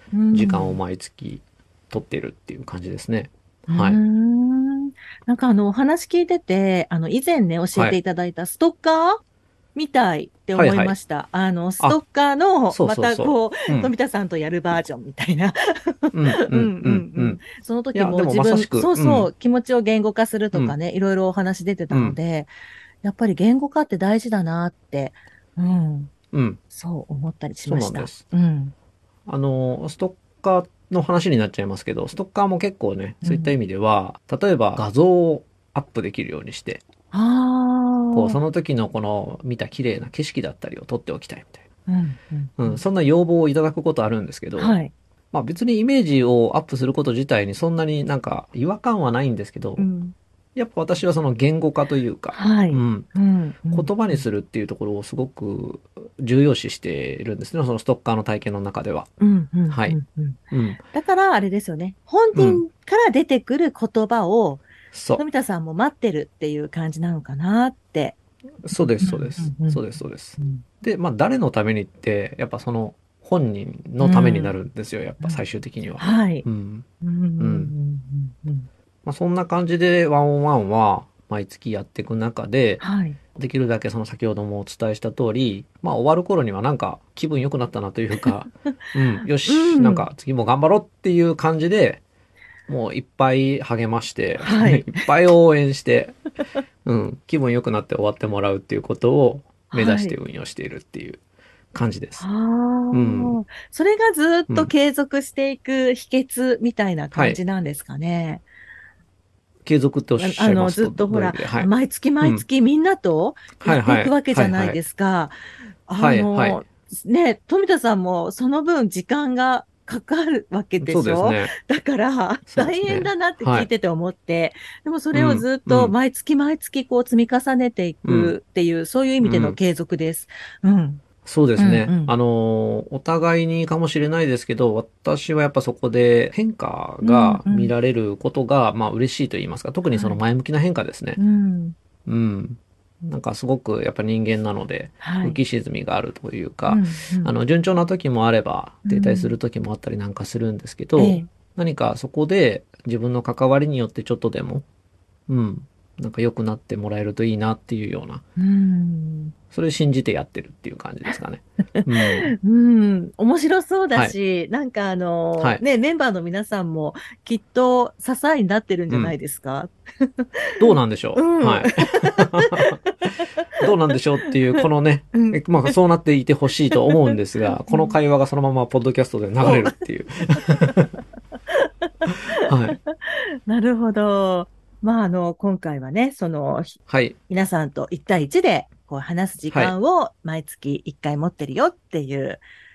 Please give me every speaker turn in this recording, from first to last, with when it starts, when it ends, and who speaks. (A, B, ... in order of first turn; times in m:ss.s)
0:00.1-0:00.8 A
0:00.3-0:04.0 B
0:03.7-0:09.2 A
0:09.7-0:22.5 A
0:10.5-0:11.0 B
0:12.7-0:13.9 B
0:16.1-0:17.4 B
0:17.9-0:19.3 B
0:21.9-0:22.2 B
0:23.0-0:26.1 A
0:26.3-0:26.6 B
0:26.7-0:28.7 A
0:27.6-0:28.2 B
0:29.3-0:36.8 B
0:33.2-0:33.6 A
0:37.1-0:38.4 A
0:38.1-0:41.6 B
0:41.9-0:42.8 A
0:42.6-0:44.8 B
0:44.6-0:44.9 A
0:45.3-0:49.9 B
0:49.8-0:50.1 A
0:50.6-0:53.1 B
0:52.3-0:54.2 A
0:53.7-0:59.1 B
0:59.2-1:00.4 A
0:59.7-1:00.0 B
1:00.5-1:00.8 B
1:00.9-1:04.6 A
1:02.3-1:02.6 B
1:04.9-1:05.2 B
1:05.2-1:08.2 A
1:08.6-1:16.8 B
1:08.7-1:09.8 A
1:10.4-1:10.6 A
1:14.0-1:14.6 A
1:16.0-1:16.5 A
1:17.0-1:18.7 A
1:17.4-1:17.7 B
1:19.0-1:22.8 B
1:22.8-1:23.2 A
1:23.3-1:32.0 B
1:29.3-1:30.1 A
1:32.7-1:36.2 B
1:34.4-1:35.0 A
1:36.8-1:41.2 B
1:39.7-1:40.2 A
1:41.7-1:42.2 B
1:42.2-1:48.4 A
1:42.9-1:43.4 B
1:47.1-1:47.4 B
1:49.6-1:51.7 B
1:50.2-2:11.0 A
1:53.6-1:54.8 B
1:56.0-1:56.6 B
2:00.8-2:01.5 B
2:02.5-2:03.7 B
2:05.1-2:05.9 B
2:08.0-2:08.3 B
2:09.2-2:09.6 B
2:11.2-2:21.2 B
2:11.6-2:12.1 A
2:17.0-2:17.7 A
2:19.9-2:20.2 A
2:21.2-2:21.8 A
2:22.0-2:34.6 B
2:25.0-2:25.4 A
2:26.7-2:27.3 A
2:28.9-2:29.4 A
2:31.0-2:31.3 A
2:35.3-2:38.2 B
2:38.4-2:39.3 A
2:39.5-2:42.3 B
2:42.3-2:53.4 A
2:48.9-2:49.1 B
2:50.6-2:52.8 B
2:53.6-3:01.0 B
2:54.2-2:55.8 A
2:57.7-2:57.9 A
2:59.4-2:59.8 A
3:01.5-3:12.4 A
3:02.1-3:02.8 B
3:06.9-3:07.2 B
3:09.5-3:09.8 B